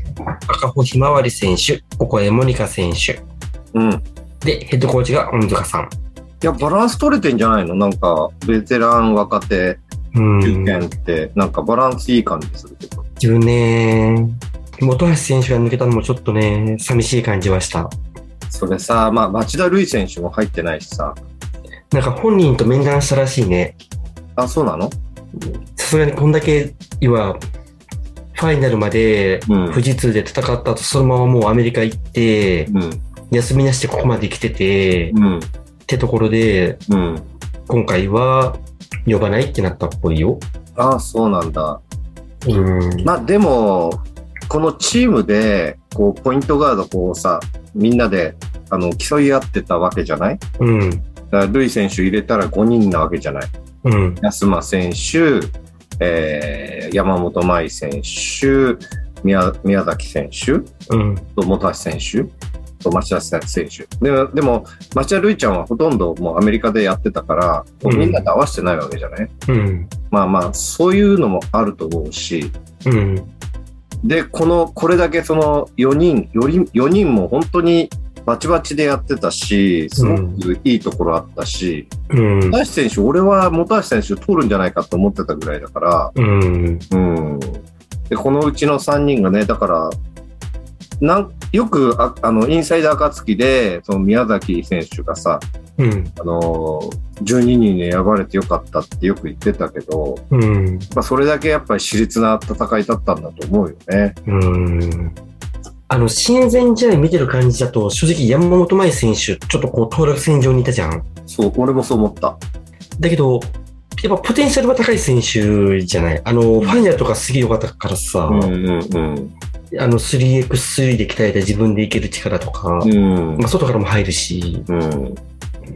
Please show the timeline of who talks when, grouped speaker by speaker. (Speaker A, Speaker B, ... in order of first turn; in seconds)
Speaker A: 0.5-3.2, 4.4-5.9, 10.1-10.9, 13.2-17.9, 21.9-23.8, 25.8-27.4, 28.3-32.7, 33.3-35.2, 35.9-36.8, 37.7-40.4, 42.4-43.1, 50.6-51.0, 53.8-54.2, 60.9-61.3, 67.8-68.3, 69.5-69.9, 72.8-73.3, 80.0-80.4, 82.1-82.6, 86.1-86.8, 95.8-96.1, 100.3-100.9, 104.2-105.2, 105.9-111.0, 113.0-118.5, 119.7-124.7
Speaker B: 3.7-4.0, 6.4-9.8, 10.4-13.0, 18.5-21.2, 24.4-24.9, 29.5-29.8, 32.7-33.0, 35.1-35.5, 36.9-37.2, 40.8-41.8, 43.0-50.4, 51.3-53.5, 54.2-60.7, 61.4-62.3, 62.8-69.3, 70.1-72.5, 74.0-81.9, 82.5-86.1, 86.9-90.0, 91.0-95.4, 96.2-100.2, 100.9-104.2, 111.3-112.4, 118.3-119.3, 122.8-123.4, 124.7-125.2